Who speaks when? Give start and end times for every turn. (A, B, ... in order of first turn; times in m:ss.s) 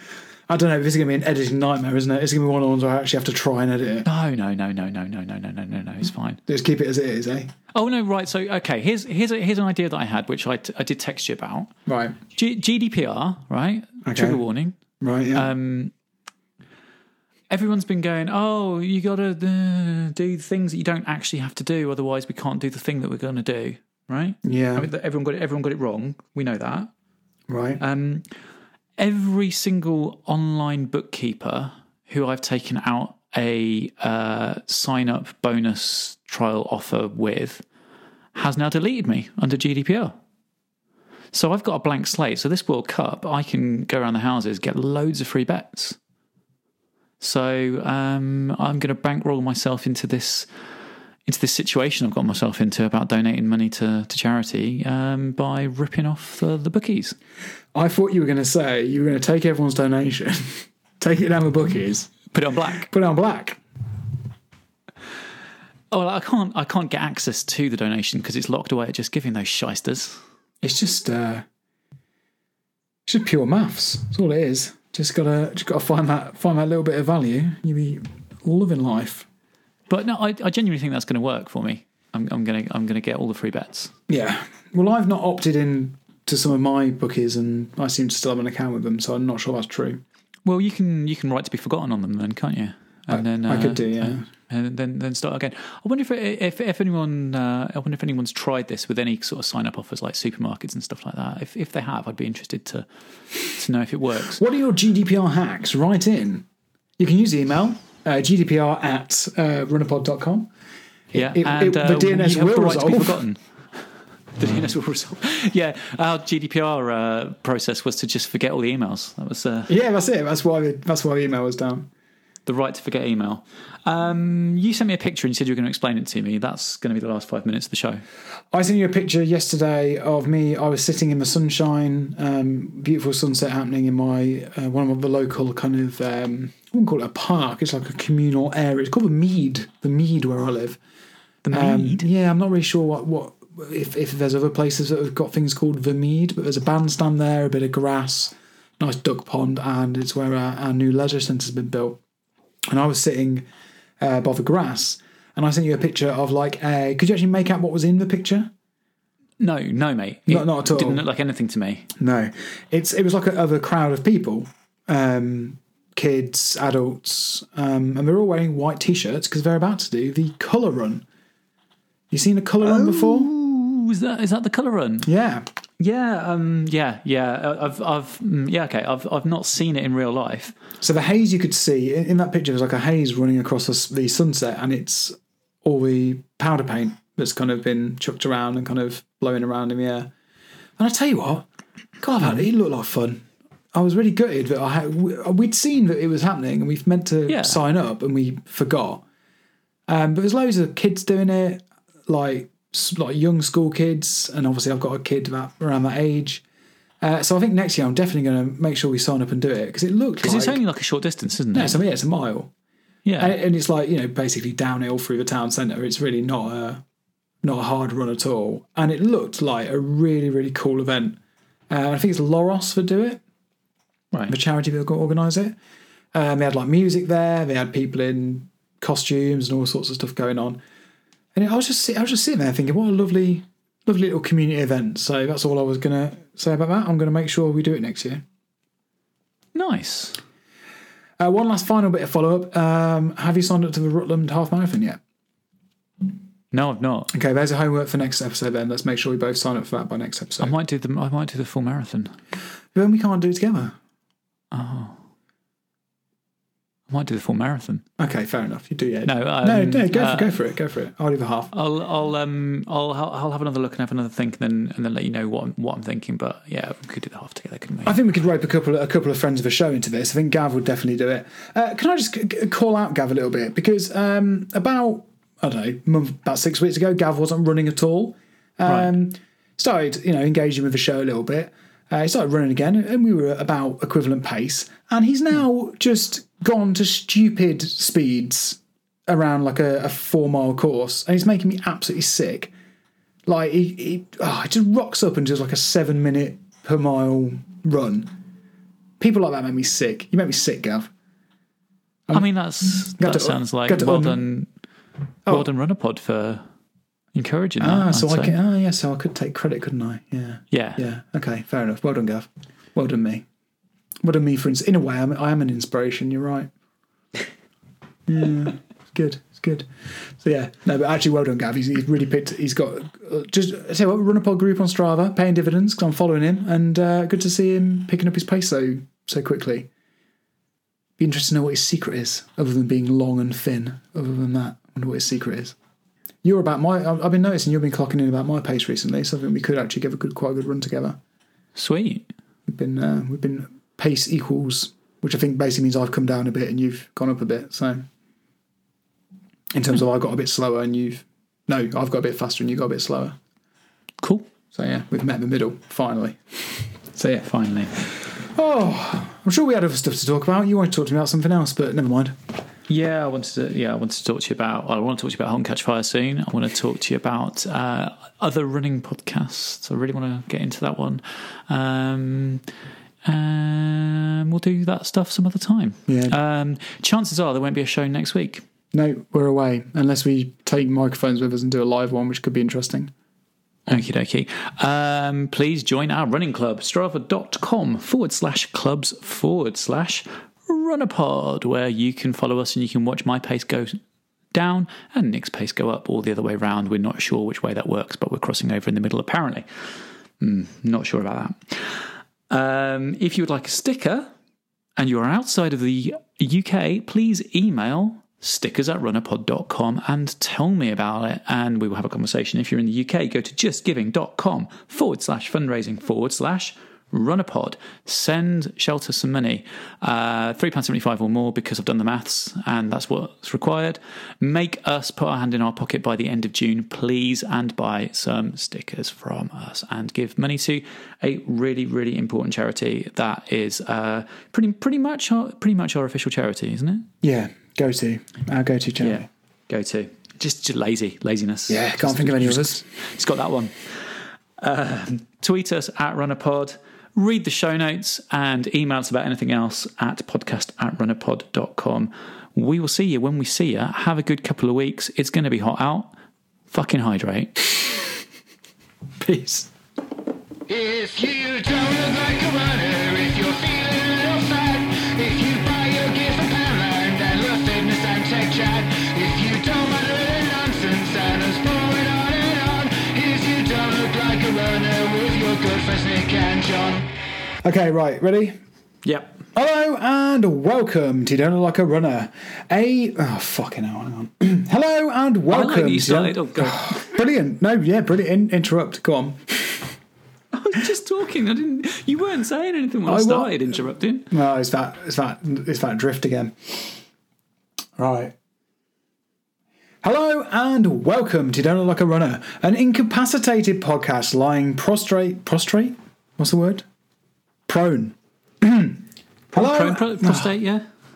0:00.5-0:04.1 A
0:04.0-0:06.4 B
0:06.5-0:07.5 A
0:07.7-0:11.7 B
0:11.9-0:12.2 A
0:12.3-0:14.8 B
0:14.0-0:14.4 A
0:15.0-0:15.5 A
0:15.3-0:15.9 B
0:17.5-0:26.9 B
0:24.4-0:24.9 A
0:27.5-0:27.8 A
0:27.8-0:28.2 B
0:29.0-0:37.6 B
0:38.3-0:40.1 B
0:41.3-0:46.0 B
0:47.2-0:50.5 B
0:51.2-0:57.2 B
0:57.7-1:02.2 A
1:02.3-1:02.9 B
1:02.7-1:03.6 A
1:05.9-1:10.2 B
1:10.6-1:11.4 A
1:13.0-1:19.3 A
1:19.9-1:23.9 B
1:24.1-1:30.0 A
1:30.4-1:42.8 B
1:33.1-1:34.2 A
1:43.5-1:44.4 B
1:44.4-1:46.4 A
1:47.0-1:50.5 A
1:51.1-1:53.2 A
1:51.1-1:53.4 B
1:54.4-1:59.7 B
1:59.7-2:01.9 A
2:02.4-2:08.0 B
2:08.5-2:20.8 A
2:21.4-2:22.1 B
2:21.5-2:32.0 A
2:32.7-2:33.4 A
2:34.0-2:38.5 A
2:39.4-2:41.9 B
2:40.3-2:41.0 A
2:42.0-2:51.0 A
2:52.1-2:53.3 A
2:52.6-2:55.1 B
2:55.0-2:55.4 A
2:55.8-3:00.5 B
3:00.8-3:10.1 A
3:10.8-3:11.5 A
3:12.0-3:19.0 A
3:17.3-3:17.6 B
3:19.9-3:26.4 A
3:27.0-3:30.6 A
3:30.2-3:31.8 B
3:31.5-3:32.5 A
3:33.0-3:33.4 B
3:33.2-3:36.8 A
3:37.4-3:41.2 A
3:41.7-3:43.2 A
3:44.3-3:45.6 A
3:46.1-3:50.6 A
3:51.3-3:58.2 A
3:59.5-4:00.2 B
4:01.2-4:05.0 A
4:06.5-4:07.1 B
4:07.1-4:10.5 A
4:10.4-4:12.2 B
4:12.7-4:13.8 A
4:14.5-4:15.0 B
4:16.9-4:17.8 B
4:18.0-4:21.5 A
4:19.0-4:20.3 B
4:21.5-4:28.0 B
4:27.8-4:52.5 A
4:38.6-4:38.9 B
4:53.2-4:58.1 A
4:59.0-5:00.9 A
5:02.1-5:04.5 B
5:02.8-5:04.2 A
5:05.3-5:06.4 B
5:07.1-5:08.4 B
5:07.6-5:13.2 A
5:10.5-5:10.8 B
5:14.0-5:16.5 A
5:18.1-5:19.7 A
5:20.2-5:29.7 A
5:31.0-5:35.6 A
5:36.2-5:41.0 A
5:41.6-5:42.1 B
5:42.5-5:47.8 A
5:49.5-5:53.2 A
5:54.0-5:54.3 B
5:54.5-5:56.4 A
5:56.9-5:57.2 A
5:57.1-5:57.8 B
5:58.2-6:02.2 A
6:02.7-6:12.4 B
6:13.0-6:18.4 B
6:15.9-6:16.2 A
6:18.7-6:22.9 A
6:23.7-6:33.8 B
6:34.3-6:39.4 B
6:40.2-6:44.1 B
6:44.8-7:16.9 B
7:17.0-7:19.1 A
7:18.8-7:23.5 B
7:21.5-7:22.6 A
7:24.4-7:36.0 B
7:36.5-7:37.4 B
7:39.0-7:39.5 A
7:40.5-7:56.9 C
7:57.4-7:58.4 A
7:58.8-7:59.2 B
7:59.3-8:09.7 A
8:05.3-8:06.9 B
8:10.3-8:14.1 B
8:12.8-8:13.6 A
8:14.1-8:16.8 A
8:17.8-8:18.1 A
8:19.8-8:26.6 A
8:27.5-8:28.8 A
8:29.3-8:30.6 B
8:29.3-8:30.3 A